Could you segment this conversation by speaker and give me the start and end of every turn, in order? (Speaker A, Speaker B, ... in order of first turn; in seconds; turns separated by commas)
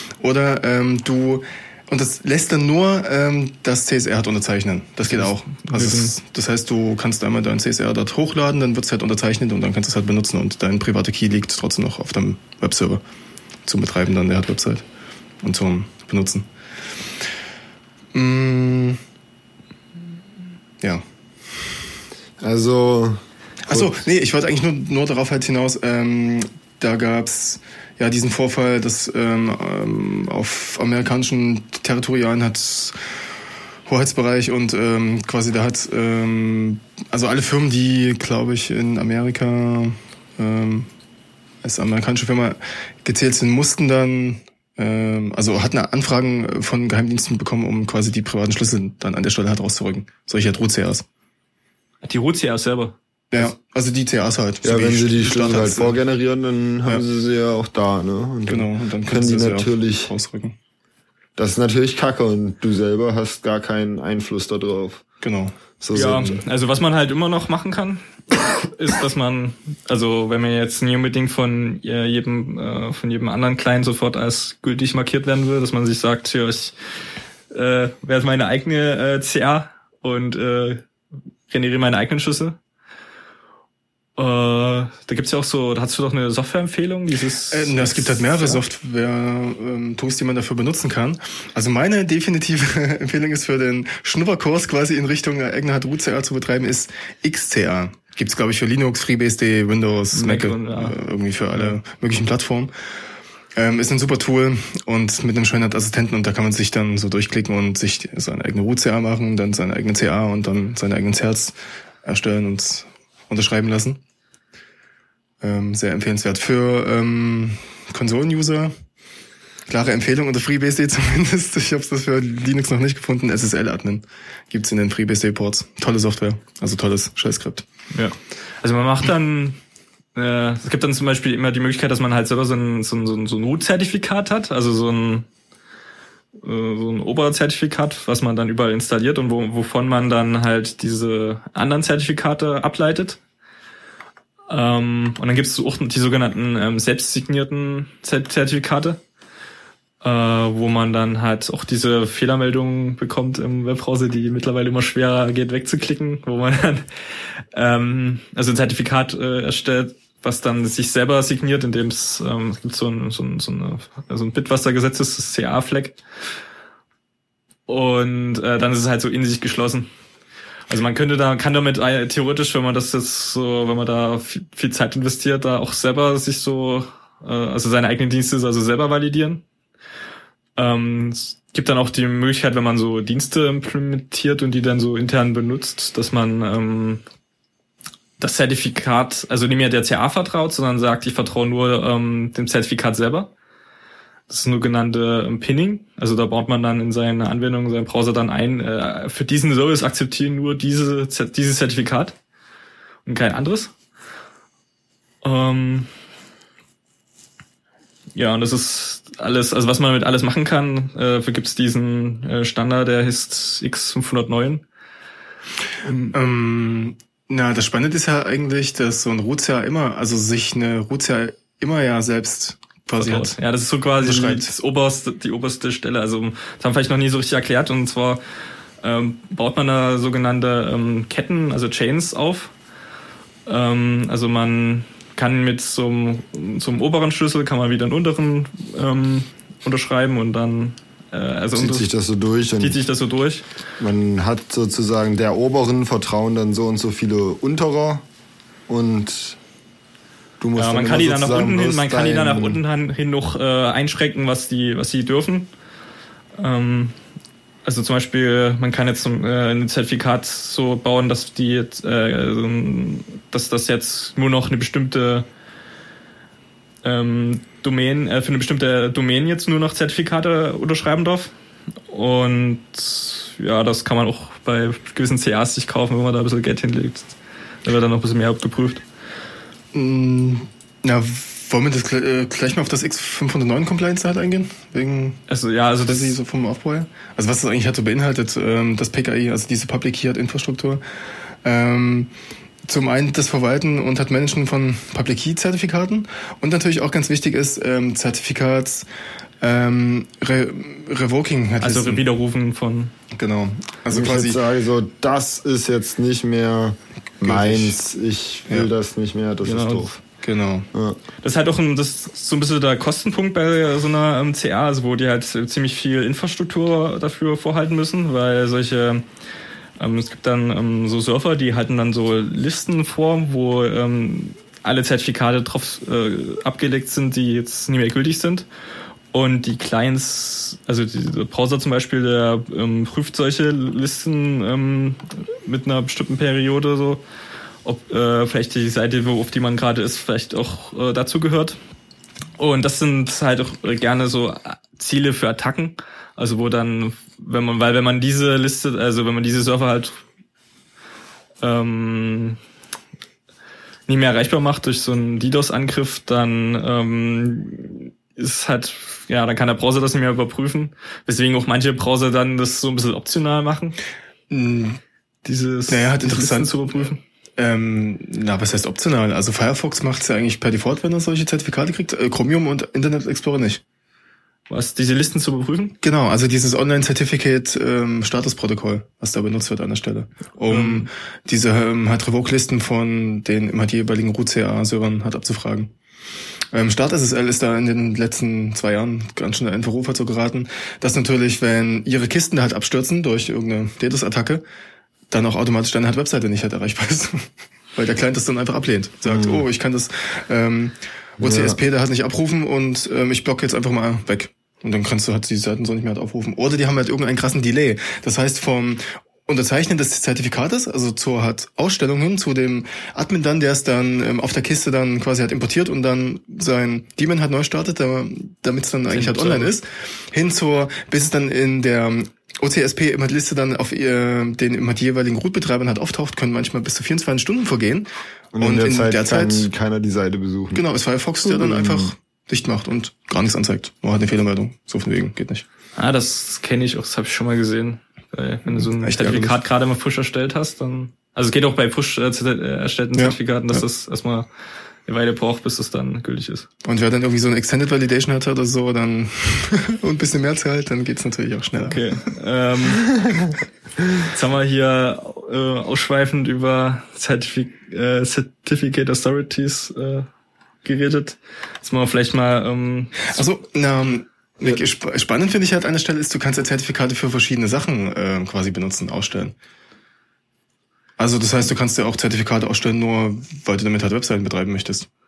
Speaker A: 0.2-13.0, Speaker B: 5.1-6.1, Speaker A: 13.7-14.8, Speaker A: 15.4-16.4, Speaker A: 18.1-19.0, Speaker C: 22.4-24.0, Speaker A: 23.6-32.9, Speaker A: 33.9-40.9, Speaker A: 41.6-51.0, Speaker B: 52.0-53.5, Speaker A: 53.3-55.9, Speaker C: 54.6-60.1, Speaker A: 58.5-60.5, Speaker C: 61.4-65.0, Speaker A: 65.2-65.5, Speaker C: 65.8-66.4, Speaker B: 65.9-68.0, Speaker B: 68.7-76.8, Speaker B: 77.5-80.8, Speaker B: 81.5-82.6, Speaker B: 84.2-88.6, Speaker A: 87.5-102.7, Speaker B: 100.1-101.0, Speaker A: 103.5-114.0, Speaker A: 115.4-118.7, Speaker A: 119.7-127.6, Speaker B: 127.9-129.6, Speaker B: 130.1-135.2, Speaker B: 136.4-143.2, Speaker B: 144.5-149.0, Speaker B: 150.0-156.8, Speaker B: 157.5-166.0, Speaker B: 167.7-169.9, Speaker B: 170.7-179.4, Speaker B: 180.6-187.0, Speaker B: 188.2-193.3, Speaker B: 194.3-202.1, Speaker B: 203.1-203.7, Speaker B: 205.2-205.9, Speaker B: 208.2-214.6, Speaker B: 215.8-216.1, Speaker A: 216.1-223.3, Speaker B: 223.0-228.2, Speaker A: 224.0-224.5, Speaker B: 228.8-232.5, Speaker B: 233.4-241.9, Speaker C: 241.5-242.8, Speaker B: 242.6-243.4, Speaker C: 243.8-248.1, Speaker C: 248.7-249.4, Speaker C: 250.4-252.6, Speaker B: 250.6-255.5, Speaker B: 256.4-256.9, Speaker B: 257.6-265.2, Speaker B: 266.8-271.3, Speaker B: 271.9-278.8, Speaker A: 279.7-285.2, Speaker B: 285.3-286.1, Speaker A: 285.8-290.8, Speaker A: 291.4-292.1, Speaker A: 292.6-298.9, Speaker A: 299.4-302.0, Speaker B: 301.6-302.9, Speaker A: 303.1-304.4, Speaker C: 303.9-310.0, Speaker A: 307.2-307.8, Speaker B: 309.4-309.9, Speaker A: 310.2-310.7, Speaker C: 310.7-311.0, Speaker B: 311.2-319.0, Speaker B: 319.8-328.5, Speaker B: 329.1-337.0, Speaker B: 337.6-341.6, Speaker B: 342.4-350.0, Speaker B: 351.4-352.4, Speaker B: 353.9-363.8, Speaker A: 364.3-364.8, Speaker B: 365.2-367.0, Speaker A: 365.7-373.6, Speaker B: 374.5-375.8, Speaker A: 375.8-385.7, Speaker B: 380.5-380.9, Speaker A: 386.5-394.4, Speaker A: 395.1-429.5, Speaker C: 399.1-399.4, Speaker C: 401.2-401.6, Speaker B: 418.9-419.5, Speaker C: 428.3-430.6, Speaker A: 430.5-435.4, Speaker C: 431.2-431.9, Speaker B: 435.8-444.3, Speaker A: 438.8-439.4, Speaker A: 442.9-443.6, Speaker B: 444.9-446.5, Speaker A: 446.6-452.0, Speaker B: 451.6-452.9, Speaker B: 454.0-460.1, Speaker B: 460.6-463.2, Speaker A: 463.1-469.3, Speaker A: 471.0-474.9